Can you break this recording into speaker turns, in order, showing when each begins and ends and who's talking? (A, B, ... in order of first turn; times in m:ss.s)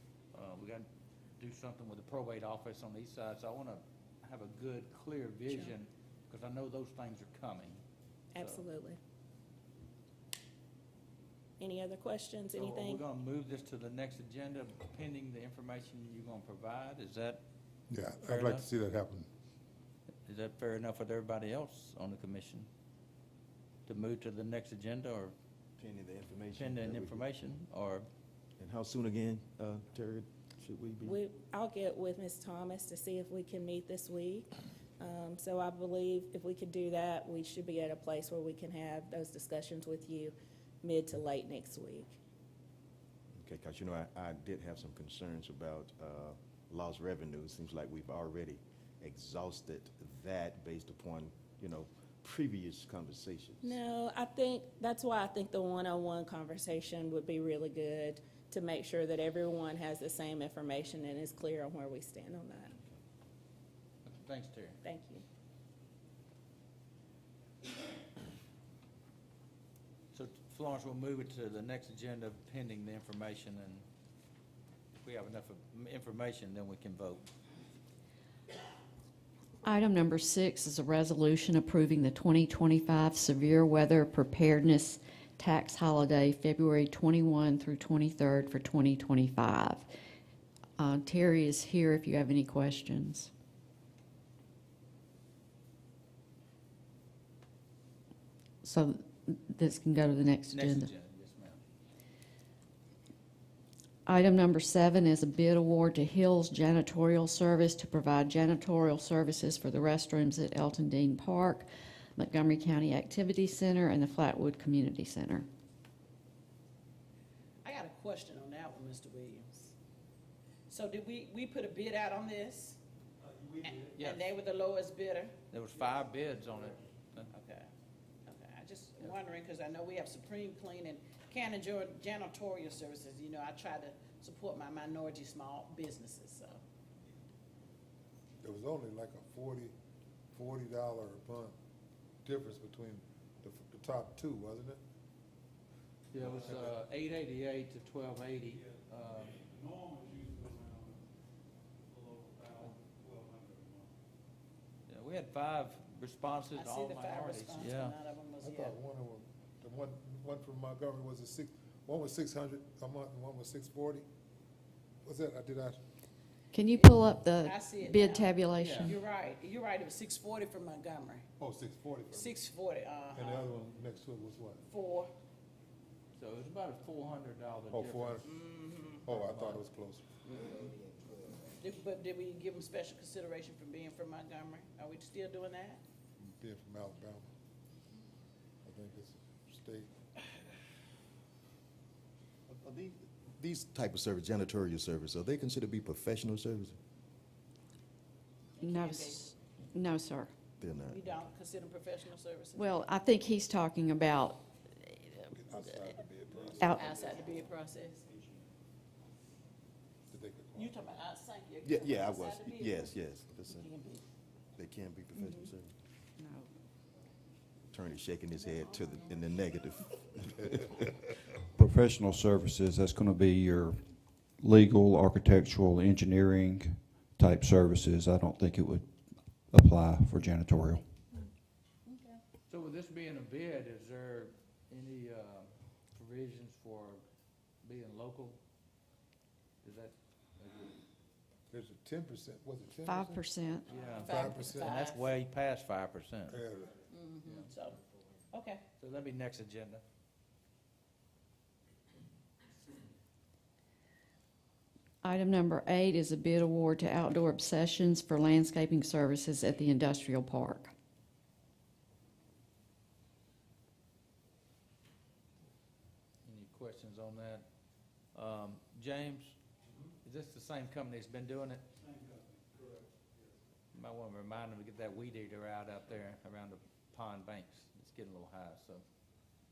0:00.3-0:00.8 A
0:01.4-0:07.8 A
0:08.3-0:09.0 B
0:08.4-0:08.6 A
0:11.6-0:13.0 B
0:12.5-0:17.4 A
0:17.9-0:19.3 C
0:18.2-0:18.6 A
0:20.2-0:22.7 A
0:23.9-0:25.3 A
0:25.8-0:27.2 D
0:26.5-0:28.1 A
0:28.6-0:31.2 D
0:31.0-0:42.2 B
0:43.3-0:53.8 D
0:53.6-1:02.7 B
1:04.0-1:04.8 A
1:04.8-1:05.2 B
1:10.1-1:13.8 A
1:15.0-1:17.3 A
1:19.6-1:29.9 E
1:30.8-1:33.3 E
1:38.6-1:40.9 E
1:40.5-1:41.6 A
1:44.0-1:55.5 E
1:57.6-1:59.7 F
2:00.7-2:02.8 F
2:03.6-2:05.4 F
2:03.9-2:04.4 A
2:05.5-2:07.3 A
2:07.3-2:07.7 F
2:08.2-2:16.6 F
2:18.4-2:19.7 C
2:20.3-2:21.5 C
2:22.2-2:24.8 C
2:26.1-2:29.4 A
2:26.2-2:26.7 C
2:34.9-2:38.0 A
2:36.5-2:38.7 F
2:38.4-2:44.0 C
2:45.0-2:45.8 C
2:46.5-2:49.0 E
2:47.4-2:51.2 F
2:48.6-2:48.9 A
2:51.4-2:52.4 C
2:52.1-2:53.5 F
2:53.1-2:54.6 C
2:54.7-2:55.1 F
2:56.2-2:58.2 A
2:57.7-2:58.2 C
2:58.2-2:59.0 F
2:59.0-3:00.0 C
2:59.1-2:59.6 A
3:00.2-3:00.7 A
3:01.6-3:05.8 F
3:06.2-3:07.3 C
3:08.6-3:09.9 C
3:12.5-3:16.8 D
3:18.6-3:19.2 F
3:18.6-3:20.3 E
3:20.6-3:21.3 D
3:20.9-3:22.7 F
3:22.5-3:25.0 E
3:25.4-3:26.7 C
3:26.6-3:27.2 E
3:26.8-3:28.0 F
3:30.1-3:30.7 C
3:30.5-3:33.0 F
3:31.6-3:33.7 D
3:33.5-3:34.0 F
3:34.6-3:35.7 D
3:36.2-3:36.5 E
3:37.7-3:41.0 D
3:41.5-3:48.9 G
3:49.5-3:50.8 G
3:51.9-3:52.1 F
3:52.5-3:57.0 A
3:57.6-3:58.4 A
3:59.6-4:00.7 A
4:01.5-4:03.2 C
4:02.9-4:03.8 E
4:03.7-4:06.4 A
4:03.9-4:05.1 F
4:04.0-4:04.8 C
4:06.3-4:06.8 C
4:06.9-4:07.8 F
4:07.2-4:07.5 A
4:08.3-4:08.6 F
4:08.7-4:09.8 A
4:15.0-4:20.7 E
4:26.2-4:27.4 A
4:28.1-4:29.4 A
4:30.0-4:31.6 A
4:33.7-4:38.8 A